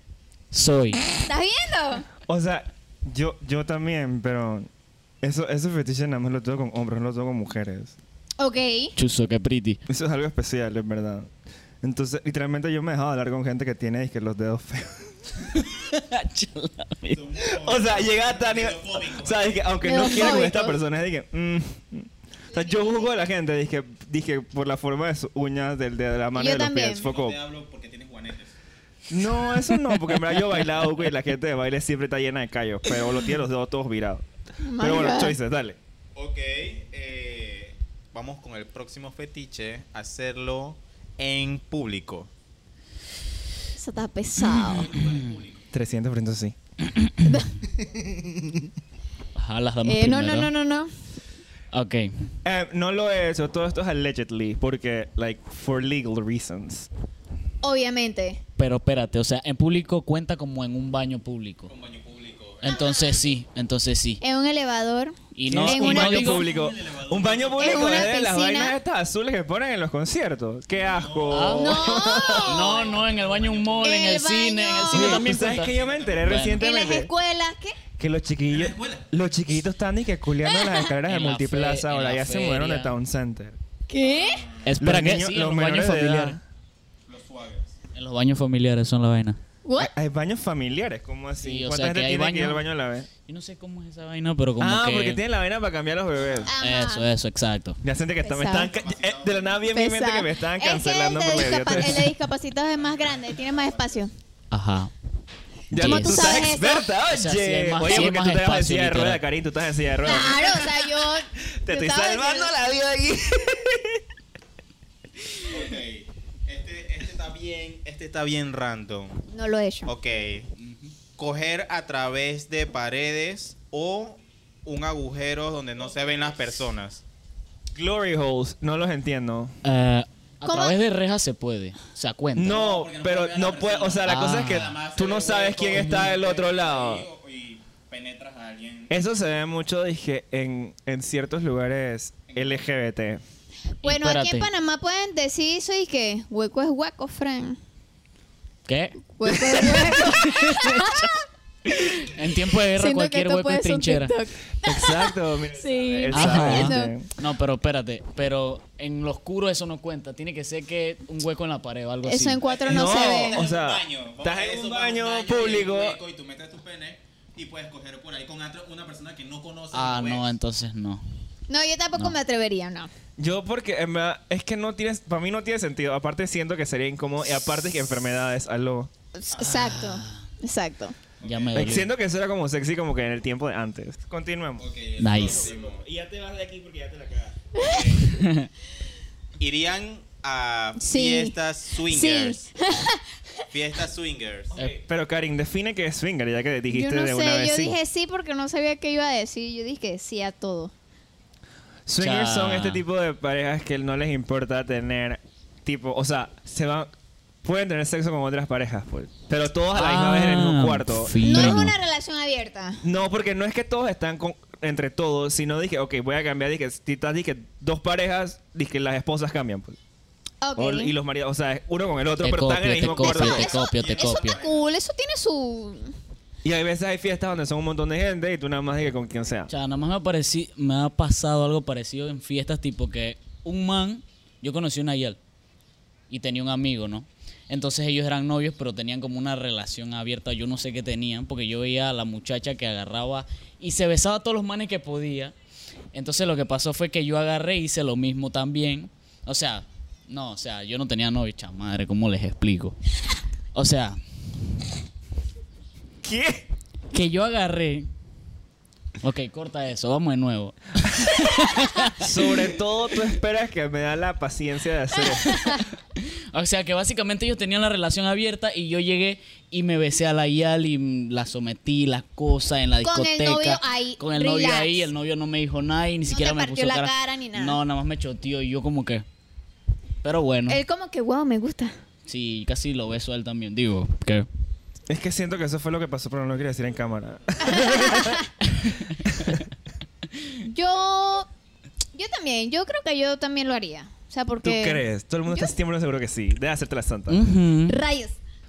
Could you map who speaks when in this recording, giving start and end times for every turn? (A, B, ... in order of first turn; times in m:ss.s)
0:00.5-0:01.0 A
0:01.2-0:02.1 B
0:02.2-0:04.7 C
0:05.2-0:08.0 C
0:08.4-0:08.9 B
0:09.0-0:09.8 A
0:09.9-0:11.3 C
0:11.8-0:15.1 C
0:15.5-0:17.2 A
0:17.1-0:19.6 D
0:17.4-0:27.4 C
0:19.8-0:20.8 B
0:22.5-0:23.2 B
0:26.3-0:27.1 B
0:27.0-0:28.6 D
0:29.1-0:34.2 C
0:34.6-0:35.4 B
0:34.8-0:35.8 C
0:36.1-0:42.3 D
0:43.7-0:44.9 B
0:44.4-0:45.7 D
0:45.0-0:45.3 A
0:45.7-0:46.5 C
0:46.8-0:47.3 A
0:47.2-0:47.6 B
0:48.2-0:48.6 C
0:49.3-0:50.5 A
0:49.8-0:50.9 B
0:51.7-0:52.3 A
0:52.4-0:56.9 C
0:57.6-0:58.4 B
0:58.6-1:01.7 A
1:01.7-1:02.8 D
1:02.6-1:04.2 A
1:02.6-1:03.2 B
1:04.2-1:06.4 B
1:05.3-1:06.4 A
1:05.5-1:12.6 C
1:06.0-1:08.1 D
1:07.6-1:08.7 B
1:10.8-1:13.9 D
1:11.3-1:16.6 A
1:11.6-1:13.0 B
1:13.8-1:15.2 B
1:14.9-1:17.1 C
1:15.2-1:16.5 D
1:16.6-1:17.8 B
1:18.0-1:23.6 C
1:18.5-1:19.0 D
1:20.4-1:20.9 B
1:21.0-1:22.9 A
1:23.9-1:24.5 B
1:24.0-1:24.7 D
1:24.6-1:26.4 A
1:24.8-1:26.4 C
1:27.0-1:27.7 D
1:27.9-1:29.4 A
1:29.6-1:29.9 B
1:29.8-1:33.1 C
1:31.4-1:32.7 A
1:33.2-1:35.2 A
1:34.6-1:36.5 C
1:36.1-1:36.5 D
1:36.5-1:37.1 B
1:36.6-1:37.8 A
1:37.8-1:42.1 C
1:38.2-1:38.7 B
1:38.7-1:39.7 D
1:39.7-1:44.1 B
1:41.4-1:42.1 D
1:42.7-1:44.1 D
1:44.5-1:44.9 A
1:45.7-1:50.9 C
1:45.7-1:46.5 A
1:45.7-1:46.9 B
1:47.1-1:49.2 A
1:50.0-1:52.5 B
1:51.6-1:54.0 C
1:55.4-1:59.2 D
1:59.3-1:59.9 B
1:59.9-2:00.5 D
2:00.6-2:00.9 A
2:01.2-2:07.0 D
2:07.7-2:09.5 C
2:09.6-2:12.6 A
2:10.4-2:10.8 B
2:12.4-2:17.0 C
2:12.4-2:19.0 D
2:14.0-2:14.8 A
2:15.7-2:16.1 A
2:18.9-2:23.2 C
2:22.3-2:22.6 D
2:23.8-2:24.5 A
2:23.8-2:27.6 B
2:28.7-2:34.2 A
2:29.2-2:31.1 B
2:31.8-2:36.9 B
2:34.6-2:37.1 C
2:35.4-2:36.0 D
2:36.1-2:42.4 A
2:42.0-2:43.4 B
2:42.4-2:50.3 D
2:42.6-2:46.0 C
2:49.7-2:51.0 A
2:51.5-2:52.9 B
2:53.2-2:58.9 C
2:59.1-3:01.0 B
2:59.3-2:59.6 D
2:59.4-3:00.3 A
3:01.2-3:01.7 D
3:01.2-3:01.9 A
3:01.5-3:07.4 C
3:04.6-3:05.8 D
3:05.0-3:05.5 A
3:07.5-3:08.0 B
3:07.6-3:08.2 D
3:08.1-3:08.5 A
3:09.4-3:12.6 D
3:10.8-3:13.4 B
3:13.5-3:14.5 D
3:14.5-3:17.8 C
3:16.7-3:20.7 B
3:21.8-3:26.9 C
3:22.0-3:22.8 A
3:27.4-3:31.7 C
3:29.7-3:31.7 A
3:31.2-3:32.8 B
3:32.8-3:39.8 C
3:40.4-3:40.9 B
3:40.6-3:43.5 C
3:42.2-3:44.4 A
3:42.8-3:44.6 D
3:43.0-3:45.9 B
3:46.4-3:49.5 C
3:49.5-3:55.2 A
3:56.1-4:05.3 A
4:05.9-4:12.8 A
4:13.5-4:14.0 A
4:16.0-4:16.5 C
4:16.9-4:17.9 A
4:19.0-4:22.1 A
4:20.9-4:21.4 C
4:21.9-4:25.6 C
4:25.0-4:25.6 B
4:26.0-4:39.0 A
4:32.8-4:34.9 B
4:36.1-4:37.6 B
4:40.0-4:40.6 A
4:40.5-4:41.8 B
4:42.1-4:44.3 A
4:44.9-4:48.2 C
4:47.4-4:48.3 B
4:48.5-4:49.4 A
4:49.0-4:49.4 C
4:50.4-4:51.3 B
4:51.9-4:55.5 B
4:54.4-4:57.2 C
4:57.1-4:57.8 A
4:57.7-4:58.2 B